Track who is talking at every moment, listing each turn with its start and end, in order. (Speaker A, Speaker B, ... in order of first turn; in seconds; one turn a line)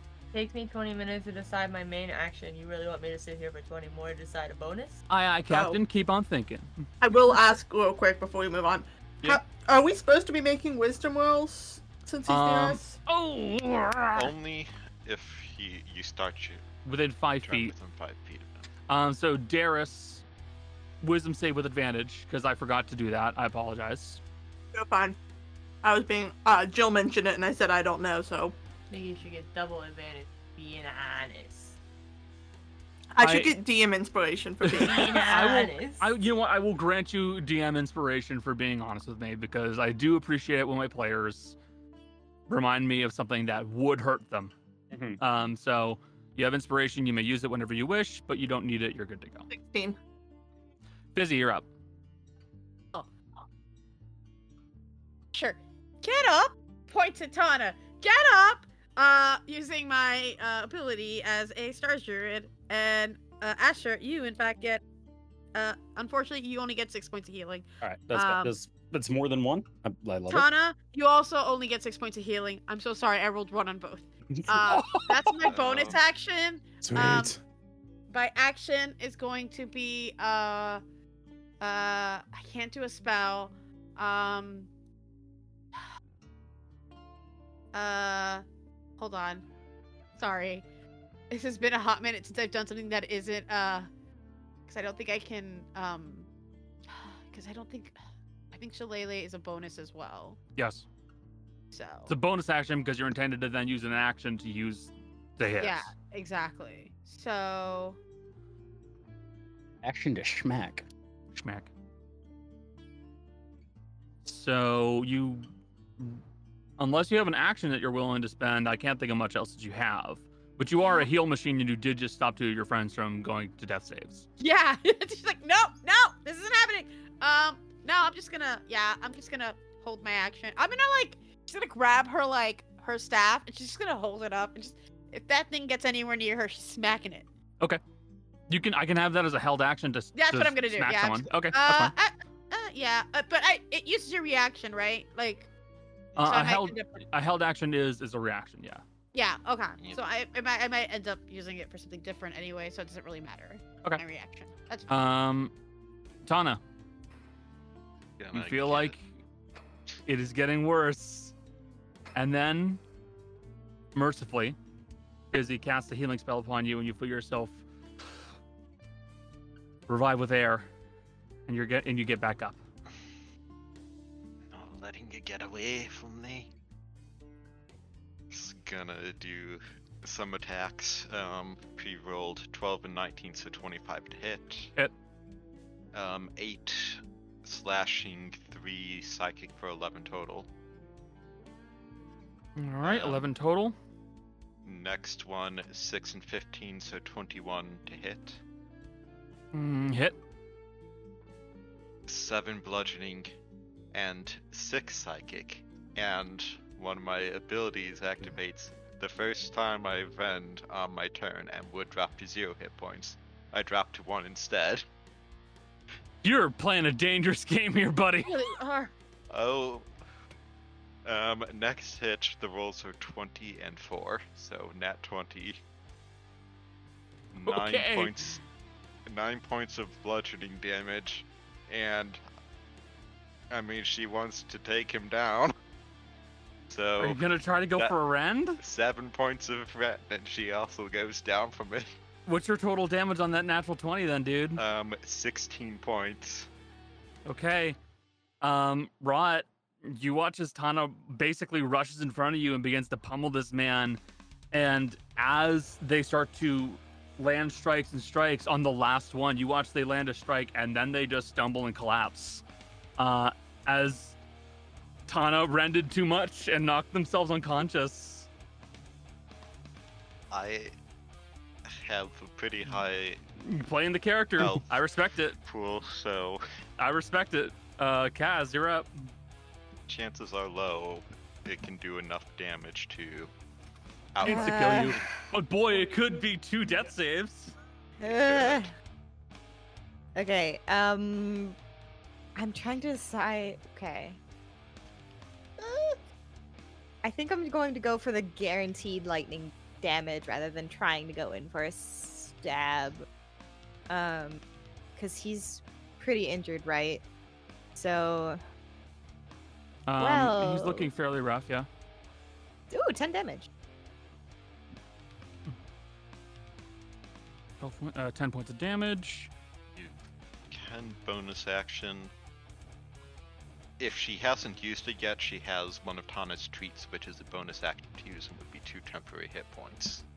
Speaker A: 0.3-5.0
Speaker B: 5.1-6.8
Speaker C: 5.5-5.8
Speaker C: 7.0-13.0
Speaker B: 12.3-14.3
Speaker D: 14.1-16.6
Speaker B: 16.9-17.7
Speaker D: 17.4-18.7
Speaker B: 18.9-20.2
Speaker B: 21.0-24.2
Speaker C: 24.7-25.2
Speaker C: 25.8-28.6
Speaker A: 28.9-31.8
Speaker C: 33.1-35.1
Speaker B: 33.2-33.5
Speaker B: 34.6-41.6
Speaker A: 34.7-36.1
Speaker B: 42.5-44.5
Speaker E: 44.9-45.2
Speaker B: 45.2-49.5
Speaker C: 49.5-50.0
Speaker B: 51.1-51.7
Speaker F: 55.3-64.8
Speaker F: 65.5-68.5
Speaker E: 67.8-70.5
Speaker F: 70.3-77.4
Speaker E: 74.5-75.3
Speaker D: 75.5-76.0
Speaker E: 76.8-77.4
Speaker F: 78.1-80.8
Speaker F: 81.6-84.7
Speaker F: 87.7-88.4
Speaker F: 89.0-89.5
Speaker F: 90.2-90.7
Speaker F: 91.3-93.9
Speaker F: 94.7-96.3
Speaker F: 96.9-98.0
Speaker F: 98.5-100.4
Speaker B: 100.6-100.9
Speaker F: 101.7-102.1
Speaker B: 102.1-105.9
Speaker F: 105.6-108.0
Speaker E: 109.8-110.9
Speaker B: 111.3-111.7
Speaker B: 114.2-116.2
Speaker B: 116.8-124.3
Speaker F: 120.8-121.1
Speaker F: 124.4-137.3
Speaker B: 138.5-141.9
Speaker F: 140.2-145.5
Speaker B: 146.2-148.8
Speaker F: 146.2-147.0
Speaker F: 149.1-154.9
Speaker B: 154.9-155.5
Speaker B: 156.2-156.6
Speaker D: 158.2-159.0
Speaker B: 158.3-159.0
Speaker B: 160.1-161.3
Speaker B: 162.2-162.8
Speaker B: 163.9-164.6
Speaker B: 165.3-167.6
Speaker B: 169.9-170.7
Speaker B: 171.5-172.6
Speaker D: 174.5-176.5
Speaker D: 178.3-184.7
Speaker D: 185.9-190.5
Speaker B: 192.6-193.8
Speaker D: 192.8-193.2
Speaker D: 194.7-198.4
Speaker B: 199.5-200.2
Speaker D: 202.1-203.3
Speaker D: 203.9-214.8
Speaker B: 216.2-218.3
Speaker F: 218.2-218.9
Speaker D: 219.3-219.9
Speaker D: 221.1-225.6
Speaker D: 227.3-228.4
Speaker B: 227.5-228.4
Speaker D: 229.1-232.2
Speaker D: 233.5-235.5
Speaker D: 236.7-237.2
Speaker B: 237.0-238.6
Speaker D: 238.6-241.9
Speaker B: 242.3-244.6
Speaker D: 244.6-246.5
Speaker B: 247.3-247.8
Speaker B: 248.4-254.0
Speaker B: 254.5-262.4
Speaker B: 263.0-264.2
Speaker B: 265.1-268.3
Speaker D: 270.3-270.7
Speaker D: 271.7-273.2
Speaker B: 273.4-275.4
Speaker D: 274.4-274.7
Speaker D: 275.4-276.4
Speaker B: 276.8-278.9
Speaker D: 279.9-283.3
Speaker D: 284.1-285.1
Speaker B: 284.2-287.5
Speaker G: 284.2-285.0
Speaker G: 288.0-288.7
Speaker D: 288.2-288.7
Speaker G: 290.1-291.6
Speaker G: 292.4-294.2
Speaker G: 295.6-295.9
Speaker G: 297.0-303.1
Speaker G: 303.9-304.4
Speaker G: 305.0-307.0
Speaker G: 307.8-308.4
Speaker B: 309.9-311.7
Speaker G: 310.0-310.9
Speaker G: 312.7-313.5
Speaker B: 317.6-319.3
Speaker D: 320.5-322.1
Speaker D: 323.8-330.0